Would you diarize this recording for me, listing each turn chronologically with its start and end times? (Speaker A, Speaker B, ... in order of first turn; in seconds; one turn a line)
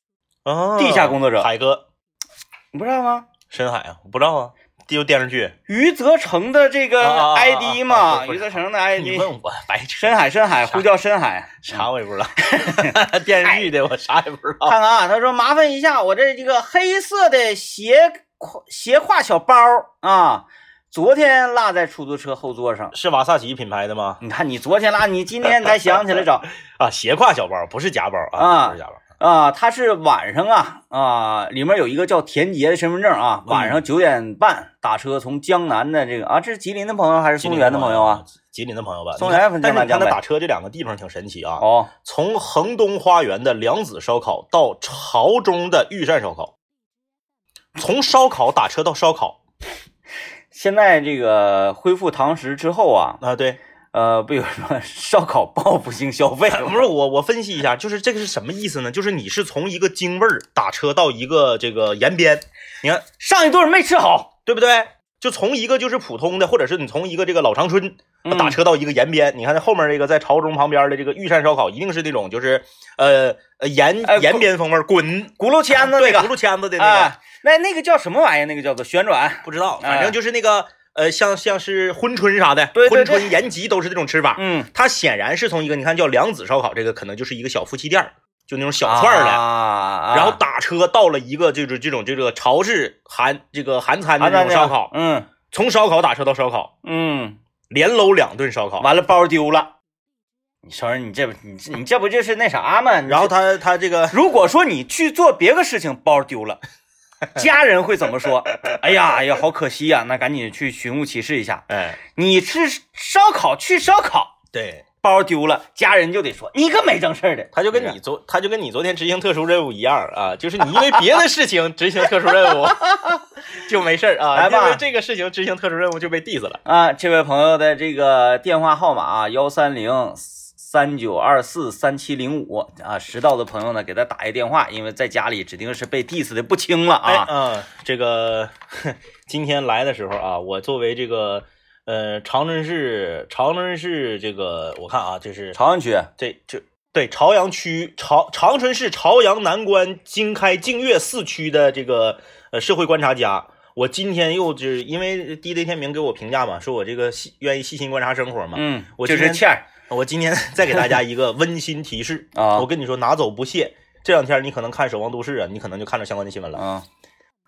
Speaker A: 0.4-1.8
Speaker B: 0.8-1.5
Speaker B: 2.7-3.3
Speaker A: 3.5-5.5
Speaker B: 5.7-9.3
Speaker A: 7.0-10.8
Speaker B: 9.9-11.8
Speaker A: 11.6-14.8
Speaker B: 12.4-13.6
Speaker B: 14.6-22.9
Speaker A: 22.9-24.2
Speaker B: 24.2-26.5
Speaker A: 26.6-29.0
Speaker B: 28.4-38.2
Speaker A: 33.5-33.8
Speaker A: 37.4-46.5
Speaker B: 39.2-40.2
Speaker B: 41.6-41.9
Speaker A: 47.8-49.4
Speaker B: 50.5-53.2
Speaker A: 53.2-53.6
Speaker B: 53.9-56.9
Speaker A: 56.5-63.0
Speaker B: 63.0-64.3
Speaker A: 64.5-77.1
Speaker B: 68.2-68.6
Speaker B: 74.0-74.5
Speaker B: 75.4-80.2
Speaker A: 79.4-89.4
Speaker B: 82.7-83.4
Speaker B: 84.3-84.7
Speaker B: 88.8-90.4
Speaker A: 90.1-94.9
Speaker B: 94.2-95.3
Speaker A: 95.5-96.7
Speaker B: 96.8-97.4
Speaker A: 97.7-98.9
Speaker B: 98.8-99.7
Speaker B: 100.7-103.3
Speaker A: 103.1-104.2
Speaker B: 104.1-106.6
Speaker B: 107.3-114.3
Speaker A: 108.2-108.9
Speaker A: 111.7-112.0
Speaker A: 114.5-114.8
Speaker B: 115.0-118.0
Speaker A: 117.5-126.6
Speaker B: 122.9-123.1
Speaker B: 124.3-124.8
Speaker B: 126.6-137.3
Speaker A: 137.0-145.6
Speaker B: 145.5-146.1
Speaker A: 146.2-166.6
Speaker B: 158.5-159.7
Speaker B: 162.3-162.7
Speaker B: 166.5-166.8